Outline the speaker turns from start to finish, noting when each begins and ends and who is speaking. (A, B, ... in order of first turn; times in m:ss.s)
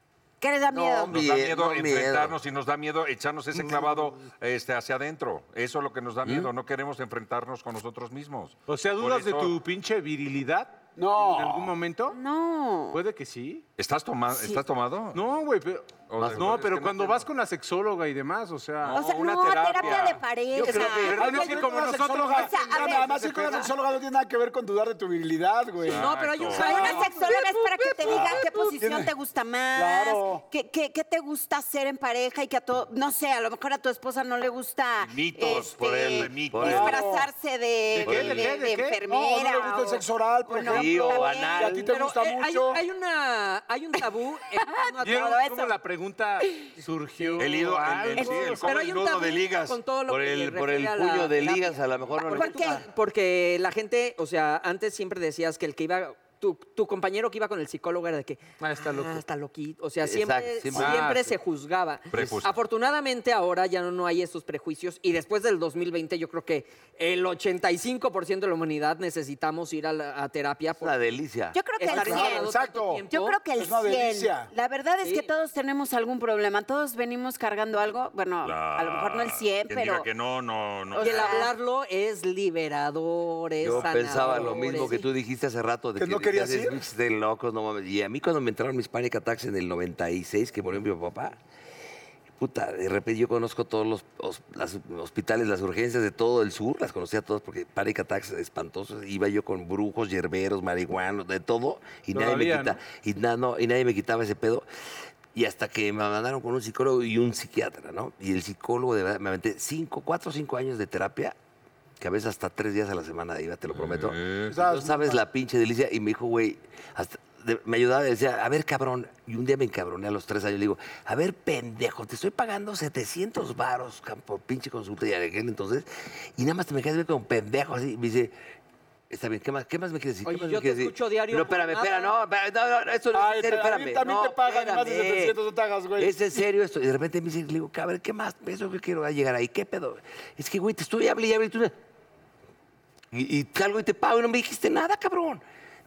0:00.4-0:01.2 A
0:00.7-0:02.4 B
0:01.0-0:09.5 C
0:08.7-0:12.2 D
0:11.0-0:11.7 E
0:12.1-0:13.0 A
0:12.9-0:13.6 D
0:13.8-0:15.2 C
0:14.3-0:14.6 A
0:15.1-0:19.0 D
0:16.1-0:17.2 C
0:16.2-0:16.5 B
0:18.8-0:20.2 C
0:18.9-0:21.4 A
0:20.5-0:21.4 B
0:20.6-0:23.7 D
0:21.1-0:26.1 E
0:22.3-0:23.2 A
0:25.8-0:26.9 C
0:25.9-0:27.4 F
0:26.5-0:41.7 A
0:26.6-0:27.0 E
0:28.1-0:28.4 B
0:28.8-0:29.1 E
0:29.7-0:30.4 E
0:35.0-0:36.9 C
0:35.4-0:37.0 B
0:36.6-0:37.3 E
0:37.9-0:39.0 D
0:38.0-0:38.5 B
0:39.0-0:42.8 E
0:40.6-0:41.8 B
0:41.6-0:45.4 F
0:44.6-0:45.7 A
0:45.0-0:48.8 D
0:47.4-0:49.8 C
0:48.2-0:48.5 A
0:48.6-1:11.0 F
0:50.1-0:52.8 B
0:52.2-0:52.8 A
0:58.6-0:59.2 D
1:00.0-1:01.2 B
1:00.7-1:01.3 D
1:02.1-1:02.5 C
1:10.8-1:11.6 B
1:11.5-1:12.5 A
1:11.8-1:13.4 F
1:11.8-1:14.5 E
1:13.1-1:20.1 A
1:15.0-1:15.3 F
1:18.4-1:21.5 C
1:20.9-1:21.5 A
1:21.0-1:24.9 F
1:23.6-1:31.4 B
1:24.6-1:25.1 A
1:26.0-1:26.8 E
1:32.4-1:44.6 B
1:42.1-1:42.8 D
1:45.3-1:51.3 B
1:52.0-2:08.4 B
1:53.7-1:54.6 C
1:54.5-1:55.2 E
2:09.1-2:14.3 B
2:10.2-2:12.1 F
2:13.1-2:16.1 E
2:14.2-2:15.4 F
2:16.0-2:21.7 B
2:23.1-2:25.4 B